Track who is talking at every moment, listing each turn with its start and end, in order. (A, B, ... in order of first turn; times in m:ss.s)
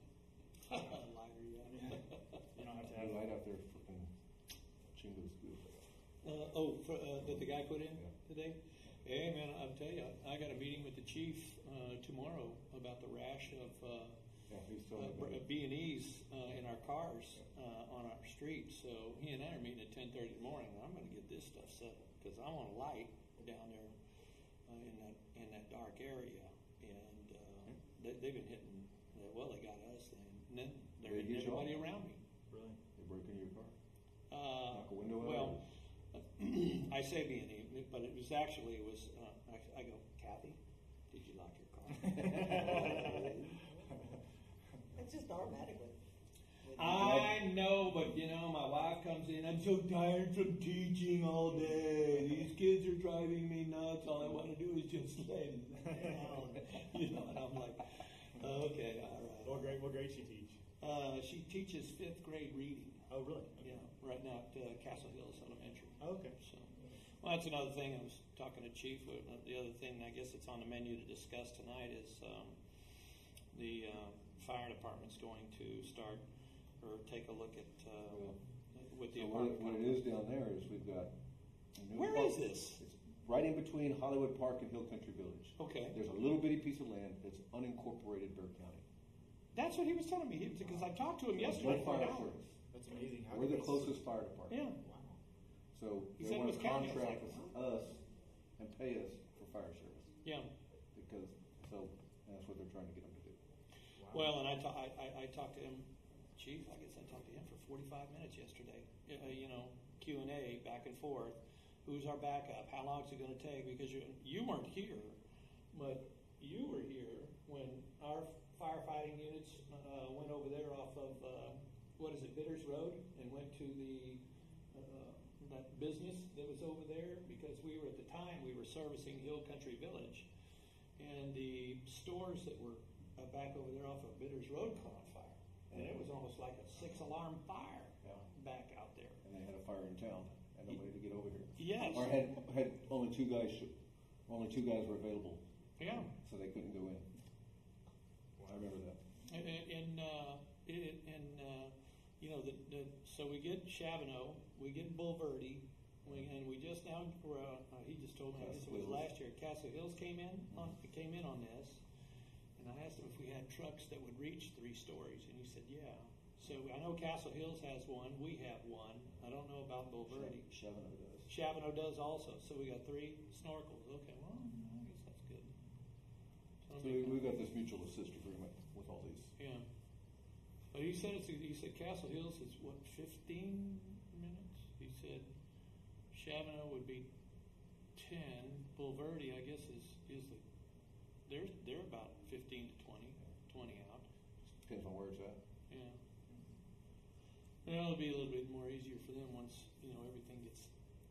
0:00.6-0:02.4 A
0:01.6-0:03.3 B
0:02.9-0:04.1 C
0:04.9-0:05.9 C
0:06.2-0:14.2 A
0:07.2-0:08.1 C
0:14.5-0:15.4 C
0:15.0-0:23.9 A
0:24.7-0:32.2 A
0:31.0-0:31.9 C
0:32.5-0:32.8 B
0:33.0-0:33.8 C
0:34.3-0:35.6 A
0:34.7-0:35.6 C
0:36.1-0:40.6 A
0:41.1-0:43.3 A
0:42.1-0:43.0 B
0:42.4-0:44.0 D
0:45.0-0:46.0 D
0:46.6-0:47.2 D
0:46.7-0:59.8 A
0:46.9-0:47.4 C
0:59.4-1:00.6 B
1:00.8-1:03.1 A
1:03.1-1:03.9 B
1:03.6-1:12.6 A
1:06.0-1:06.4 B
1:13.5-1:16.2 A
1:16.8-1:20.1 A
1:18.1-1:18.4 C
1:19.1-1:21.1 C
1:21.7-1:28.8 C
1:21.9-1:22.8 A
1:25.6-1:26.0 A
1:29.5-1:32.4 A
1:31.3-1:32.5 C
1:32.7-1:34.2 B
1:33.3-1:34.7 C
1:34.5-1:34.8 A
1:34.8-1:35.2 B
1:35.7-1:38.0 C
1:36.2-1:37.5 A
1:38.6-1:40.1 C
1:40.9-1:43.4 C
1:44.0-1:44.4 B
1:44.1-1:55.2 A
1:55.7-2:04.2 A
2:04.7-2:10.3 A
2:11.0-2:19.2 A
2:15.7-2:16.1 C
2:19.2-2:23.7 C
2:21.6-2:22.2 A
2:24.3-2:25.4 C
2:25.8-2:26.1 A
2:26.1-2:27.0 C
2:28.4-2:28.7 B
2:28.5-2:29.0 C
2:29.3-2:41.8 A
2:38.4-2:39.1 C
2:42.6-2:50.4 A
2:50.1-2:51.3 C
2:51.3-2:55.5 A
2:56.7-2:57.3 A
2:56.8-2:59.3 C
2:59.4-2:59.6 A
3:00.7-3:05.3 A
3:06.1-3:07.0 A
3:08.0-3:10.4 A
3:11.2-3:14.1 A
3:14.6-3:15.4 C
3:15.7-3:16.0 A
3:17.6-3:20.7 A